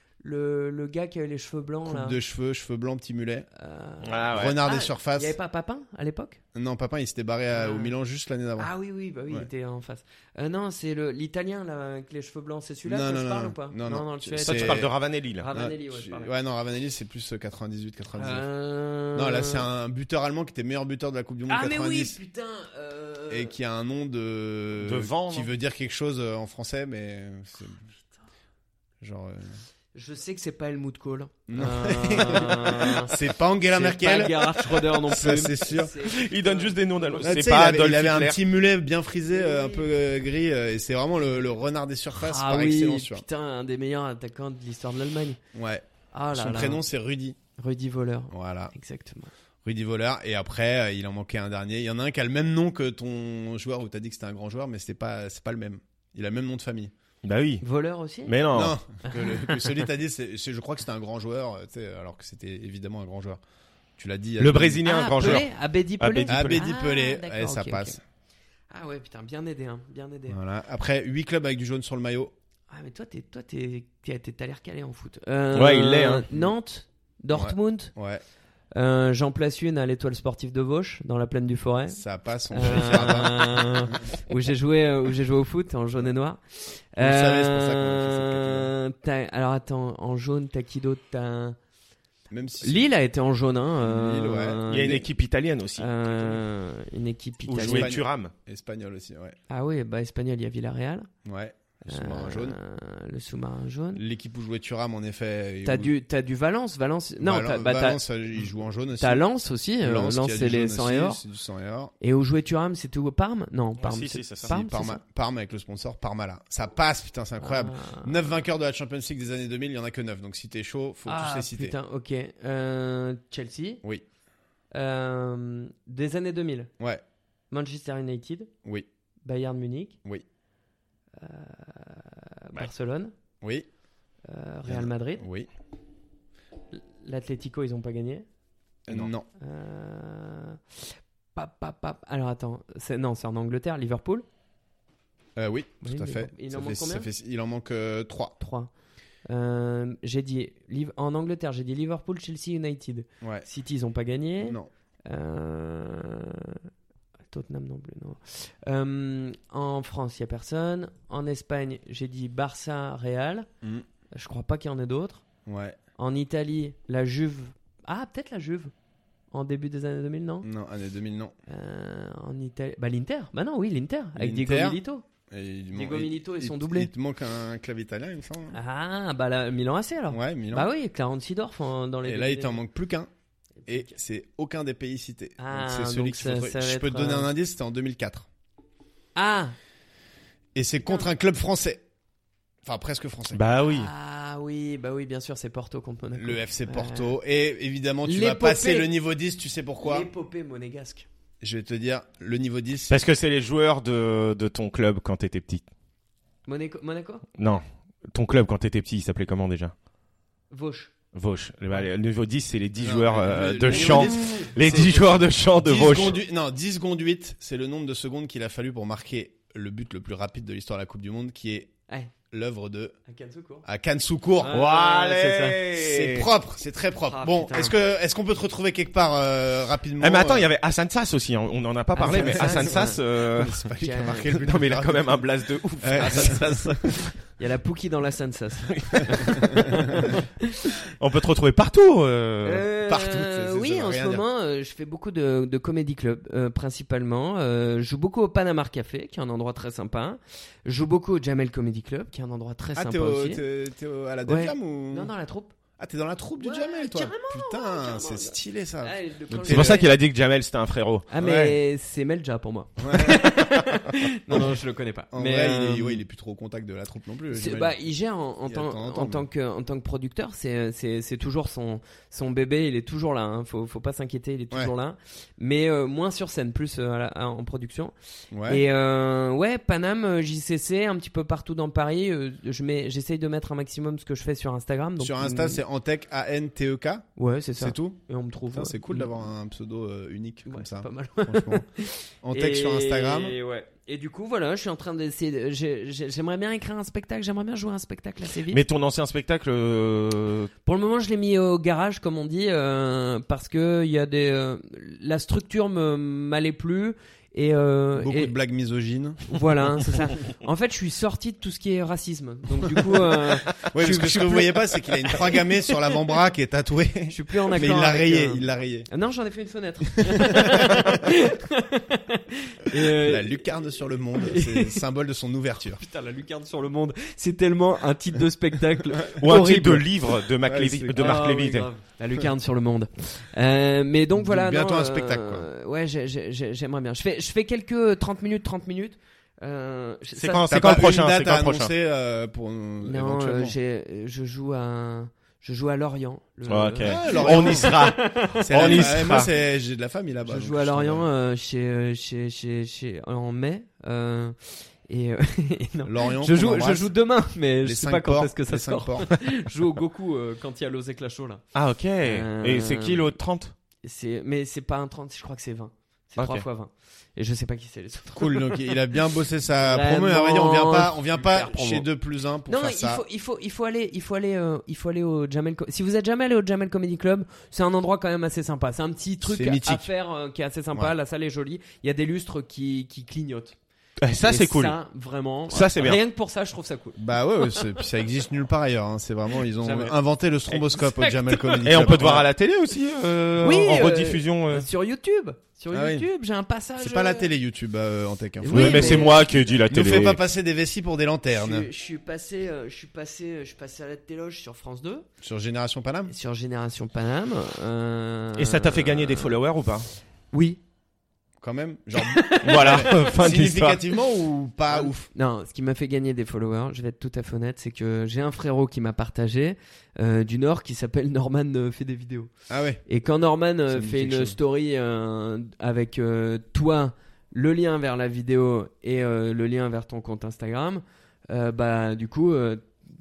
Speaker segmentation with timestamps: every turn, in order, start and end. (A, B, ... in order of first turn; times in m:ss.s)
0:00.2-0:02.2 A
0:01.9-0:03.5 B
0:03.6-0:06.4 A
0:04.0-0:04.6 C
0:04.3-0:05.4 B
0:06.6-0:08.7 B
0:07.5-0:07.9 A
0:08.6-0:14.9 A
0:12.8-0:14.9 B
0:14.4-0:15.4 C
0:15.4-0:16.3 A
0:15.5-0:18.4 B
0:18.2-0:19.6 A
0:19.1-0:22.2 B
0:21.5-0:23.5 A
0:23.3-0:27.8 B
0:24.8-0:25.5 C
0:29.0-0:29.6 B
0:29.9-0:37.4 A
0:31.5-0:36.0 B
0:36.0-0:38.4 C
0:37.2-0:43.2 B
0:39.3-0:39.9 A
0:42.2-0:45.4 A
0:45.5-0:47.4 B
0:46.1-0:46.8 A
0:47.6-0:49.3 A
0:48.3-0:48.7 B
0:49.6-0:56.9 B
0:57.2-0:57.6 C
0:57.6-0:58.4 A
0:58.3-0:58.8 C
0:58.5-1:03.4 B
0:59.0-0:59.8 A
1:04.0-1:04.8 B
1:04.4-1:05.5 C
1:04.8-1:08.0 A
1:06.0-1:06.6 C
1:06.3-1:08.0 B
1:08.7-1:10.4 A
1:10.3-1:12.3 B
1:12.7-1:17.9 A
1:15.5-1:16.3 C
1:17.3-1:18.2 B
1:18.7-1:31.6 A
1:21.9-1:24.0 B
1:27.0-1:28.7 B
1:32.3-1:32.9 B
1:32.6-1:35.1 A
1:33.8-1:34.6 B
1:34.7-1:35.9 C
1:35.8-1:38.0 A
1:37.5-1:38.3 C
1:37.6-1:39.4 B
1:39.5-1:41.1 A
1:41.2-1:42.6 B
1:41.9-1:44.0 A
1:44.0-1:45.9 B
1:45.6-1:48.0 A
1:47.2-1:49.2 B
1:49.0-1:51.2 A
1:49.8-1:51.9 B
1:52.0-1:55.0 A
1:53.8-1:54.5 C
1:54.4-2:01.7 B
1:57.4-1:58.1 A
2:01.1-2:03.8 A
2:04.7-2:06.7 A
2:07.5-2:08.5 A
2:09.2-2:10.0 A
2:11.2-2:13.1 A
2:13.4-2:13.7 B
2:14.2-2:15.2 A
2:14.7-2:15.5 B
2:16.7-2:18.2 A
2:18.9-2:19.2 B
2:18.9-2:24.2 A
2:25.4-2:28.4 B
2:25.8-2:27.1 A
2:28.4-2:28.7 A
2:29.3-2:36.6 A
2:33.2-2:33.4 B
2:34.4-2:34.7 B
2:37.3-2:43.5 A
2:44.1-2:45.2 A
2:45.4-2:45.8 B
2:46.0-2:48.7 A
2:49.3-2:50.5 A
2:50.4-2:51.3 B
2:51.5-2:55.0 A
2:54.2-2:58.6 B
2:55.7-2:56.9 A
2:58.5-3:02.6 A
3:00.1-3:00.7 B
3:02.0-3:03.1 B
3:03.6-3:03.9 A
3:03.7-3:08.3 B
3:05.4-3:07.3 A
3:09.2-3:09.6 A
3:10.6-3:11.8 B
3:12.6-3:13.4 B
3:13.3-3:13.9 C
3:13.6-3:17.2 A
3:16.1-3:20.1 B
3:18.0-3:18.9 A
3:19.8-3:21.1 A
3:21.4-3:23.0 B
3:22.9-3:25.6 C
3:26.4-3:27.2 A
3:27.4-3:29.7 C
3:30.5-3:30.9 A
3:31.1-3:36.2 C
3:32.8-3:35.1 B
3:33.6-3:34.6 A
3:35.6-3:41.7 B
3:42.3-3:43.0 B
3:43.1-3:43.6 A
3:43.6-3:44.6 B
3:44.4-3:45.6 A
3:44.4-3:46.3 C
3:45.7-3:50.5 B
3:47.1-3:47.8 A
3:50.0-3:53.6 C
3:52.0-3:53.0 A
3:52.0-3:55.3 B
3:53.8-3:54.4 A
3:54.4-3:57.1 C
3:55.8-3:56.9 B
3:56.0-3:56.5 A
3:57.4-4:00.5 A
3:58.7-3:59.4 C
4:00.8-4:02.6 C
4:02.4-4:13.4 A
4:02.9-4:04.2 B
4:12.7-4:15.1 B
4:14.3-4:15.5 A
4:15.8-4:19.9 B
4:16.4-4:19.9 A
4:19.4-4:21.1 C
4:21.1-4:26.0 A
4:21.2-4:21.6 B
4:22.8-4:23.3 B
4:25.1-4:27.7 B
4:27.3-4:37.9 A
4:28.5-4:29.3 B
4:38.3-4:38.6 B
4:38.5-4:45.6 A
4:45.0-4:47.1 B
4:47.2-4:49.1 A
4:47.6-4:48.0 B
4:48.5-4:51.6 B
4:50.5-4:58.6 A
4:52.2-4:53.4 B
4:58.5-5:00.5 C
5:00.6-5:08.3 A
5:08.0-5:09.4 B
5:09.3-5:15.5 A
5:13.7-5:18.9 B
5:17.1-5:23.4 A
5:20.0-5:20.8 B
5:22.8-5:25.8 B
5:24.1-5:24.8 A
5:25.6-5:29.8 A
5:29.2-5:31.7 C
5:30.4-5:31.2 B
5:31.0-5:40.9 A
5:34.2-5:35.5 B
5:40.2-5:41.7 C
5:40.5-5:43.6 B
5:42.8-5:49.0 A
5:46.5-5:49.3 C
5:46.8-5:47.8 B
5:48.4-5:51.1 B
5:50.2-6:01.4 A
5:55.8-5:56.9 B
5:57.6-5:59.1 B
6:01.5-6:03.5 C
6:02.0-6:03.1 A
6:03.8-6:08.8 A
6:06.2-6:06.4 C
6:08.2-6:13.0 B
6:09.6-6:11.8 A
6:12.4-6:23.6 A
6:19.2-6:19.9 B
6:24.0-6:24.7 C
6:24.2-6:27.8 A
6:25.5-6:26.0 C
6:27.0-6:32.3 B
6:29.6-6:30.0 A
6:30.5-6:32.1 A
6:31.6-6:34.7 C
6:33.4-6:37.3 A
6:35.7-6:36.1 B
6:36.8-6:41.7 B
6:38.4-6:39.6 A
6:38.5-6:40.2 C
6:41.3-6:45.1 A
6:45.2-6:46.1 B
6:46.1-6:49.4 A
6:48.4-6:49.9 C
6:50.3-6:50.6 A
6:51.4-6:55.1 B
6:52.0-6:53.1 A
6:52.4-6:53.8 C
6:54.7-7:02.3 A
7:02.5-7:02.8 B
7:02.9-7:12.6 A
7:03.7-7:04.4 B